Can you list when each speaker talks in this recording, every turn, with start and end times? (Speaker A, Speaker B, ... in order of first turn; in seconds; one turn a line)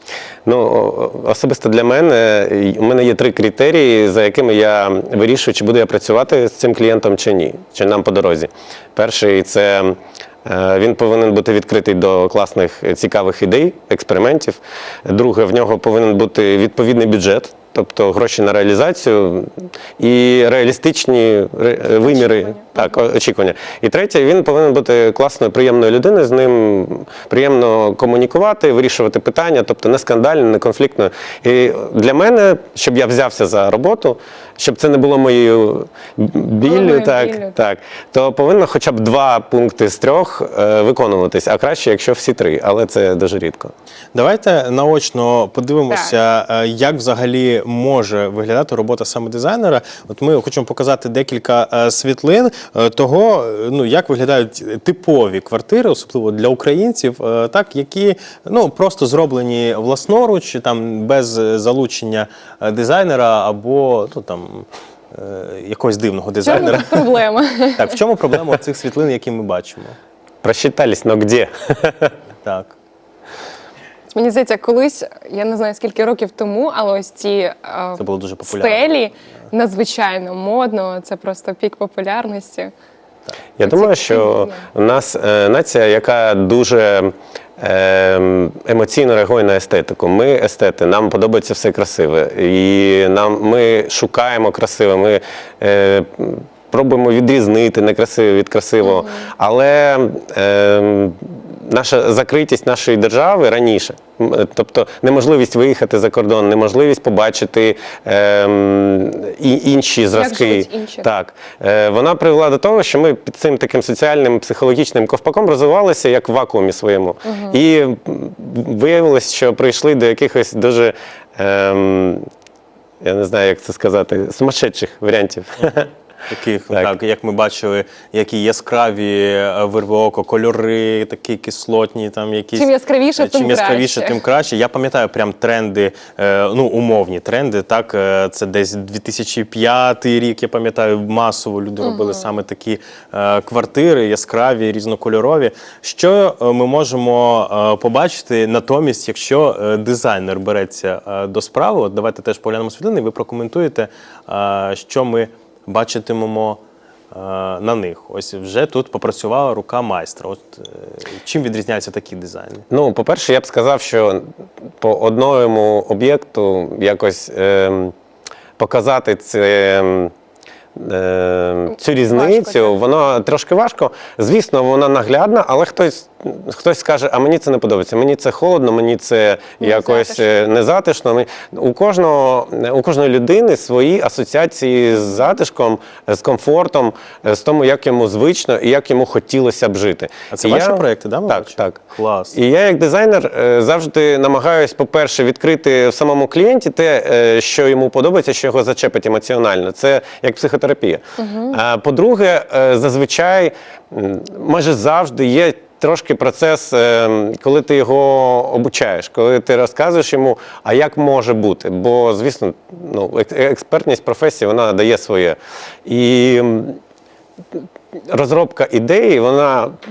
Speaker A: 0.5-43.7
Speaker B: 22.1-22.9
Speaker B: 36.6-37.5
Speaker C: 44.1-67.2
Speaker B: 66.4-68.0
Speaker C: 67.8-70.0
Speaker A: 70.4-72.1
Speaker C: 72.4-72.7
Speaker B: 74.1-82.7
Speaker C: 78.0-78.8
Speaker A: 83.6-122.2
Speaker B: 83.6-84.7
Speaker B: 98.8-99.3
Speaker B: 110.1-111.1
Speaker B: 117.3-117.6
Speaker A: 123.0-125.9
Speaker C: 126.3-156.6
Speaker B: 132.6-134.2
Speaker B: 141.8-142.2
Speaker C: 157.1-162.7
Speaker A: 162.7-164.2
Speaker A: 164.8-167.9
Speaker A: 168.6-170.1
Speaker A: 170.8-191.8
Speaker B: 172.0-172.8
Speaker B: 179.6-180.3
Speaker C: 190.3-192.3
Speaker A: 192.3-216.8
Speaker B: 201.2-201.6
Speaker A: 217.5-219.7